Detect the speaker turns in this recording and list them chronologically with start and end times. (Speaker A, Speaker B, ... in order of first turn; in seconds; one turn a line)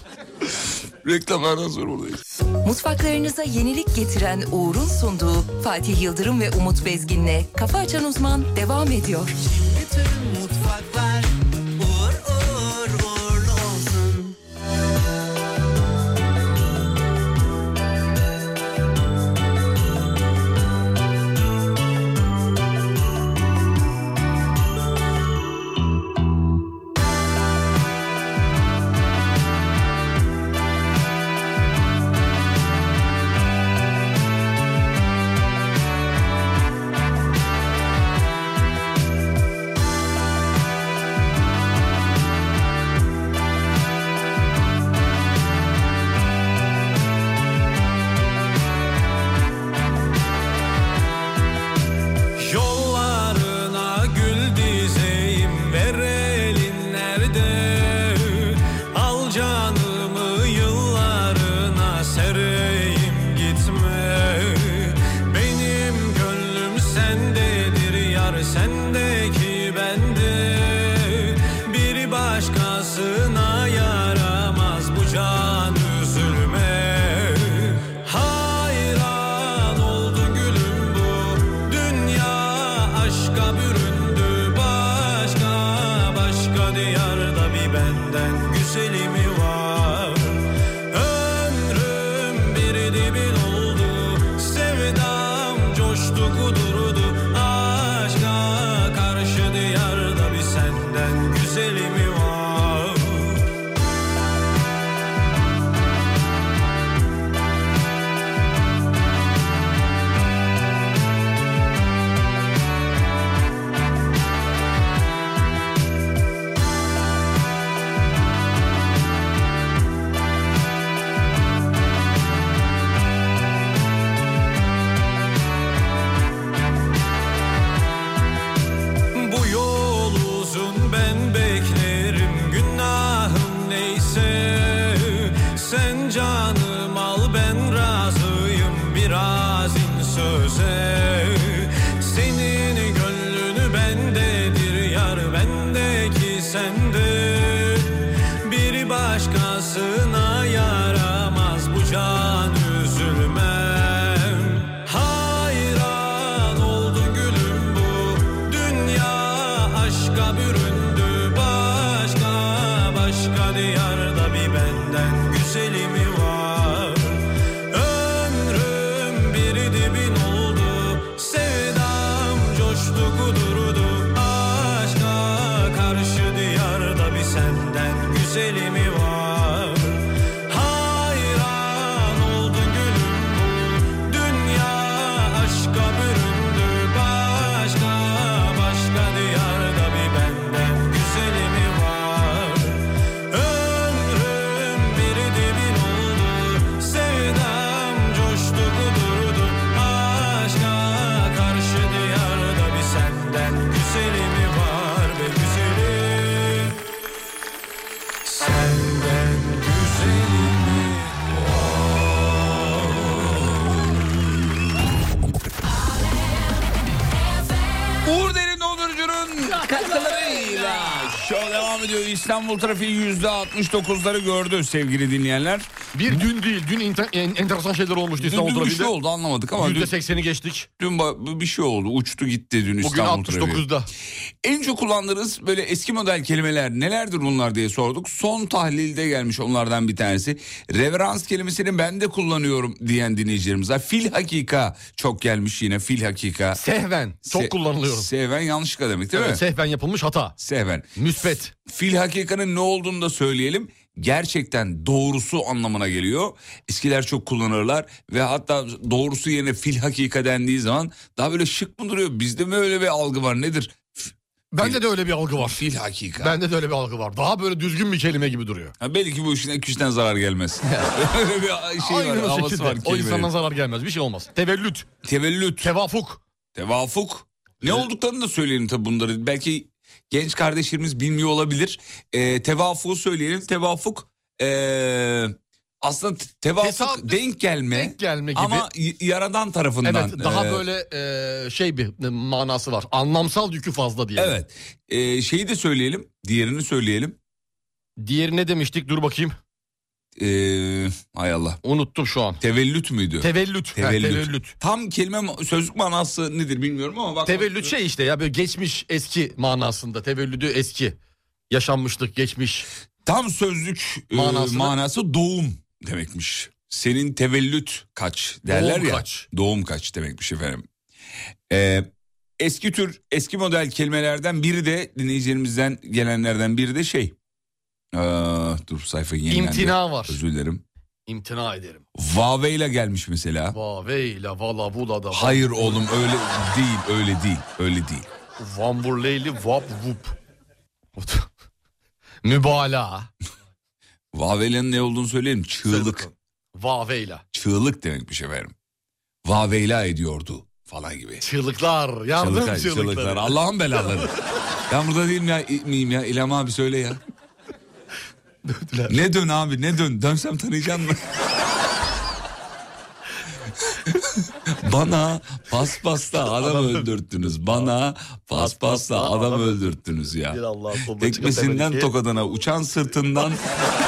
Speaker A: 1.0-2.2
Speaker B: 2.6-9.4
Speaker C: 9.7-11.3
Speaker C: 11.9-14.2
Speaker D: 52.4-103.4
Speaker D: 129.2-206.8
Speaker D: 208.2-211.2
Speaker A: 210.1-211.0
Speaker A: 213.2-214.7
Speaker A: 218.0-225.7
Speaker E: 225.9-229.0
Speaker A: 228.2-229.9
Speaker E: 229.6-230.7
Speaker A: 230.8-233.7
Speaker E: 232.8-233.9
Speaker A: 234.4-246.6
Speaker E: 246.6-248.1
Speaker A: 247.2-249.4
Speaker E: 249.1-250.4
Speaker A: 250.4-250.9
Speaker E: 251.0-251.6
Speaker A: 251.6-264.8
Speaker E: 264.5-265.6
Speaker A: 265.4-266.4
Speaker E: 266.2-268.7
Speaker A: 268.8-273.3
Speaker E: 270.6-270.9
Speaker E: 271.8-274.9
Speaker A: 275.0-275.7
Speaker E: 275.6-276.2
Speaker A: 276.6-290.6
Speaker E: 286.6-288.7
Speaker E: 289.8-294.4
Speaker A: 294.2-297.2
Speaker E: 298.0-299.4
Speaker A: 300.2-301.6
Speaker E: 301.6-302.4
Speaker A: 302.4-307.7
Speaker E: 303.2-304.6
Speaker E: 307.2-311.0
Speaker E: 311.5-312.7
Speaker A: 313.1-320.6
Speaker E: 314.1-314.8
Speaker E: 318.4-319.3
Speaker A: 321.5-321.9
Speaker A: 322.4-327.1
Speaker A: 327.9-330.6
Speaker E: 329.3-330.2
Speaker E: 331.1-331.8
Speaker A: 332.0-333.6
Speaker E: 333.5-335.8
Speaker A: 335.1-338.1
Speaker E: 338.4-340.1
Speaker E: 341.0-341.3
Speaker E: 342.2-343.1
Speaker A: 344.1-346.1
Speaker E: 345.6-347.2
Speaker A: 347.3-348.5
Speaker A: 349.2-351.2
Speaker E: 351.2-354.1
Speaker A: 352.2-354.1
Speaker A: 354.7-357.0
Speaker E: 358.5-359.1
Speaker A: 358.9-361.0
Speaker A: 364.5-373.4
Speaker E: 366.2-367.7
Speaker E: 368.3-372.0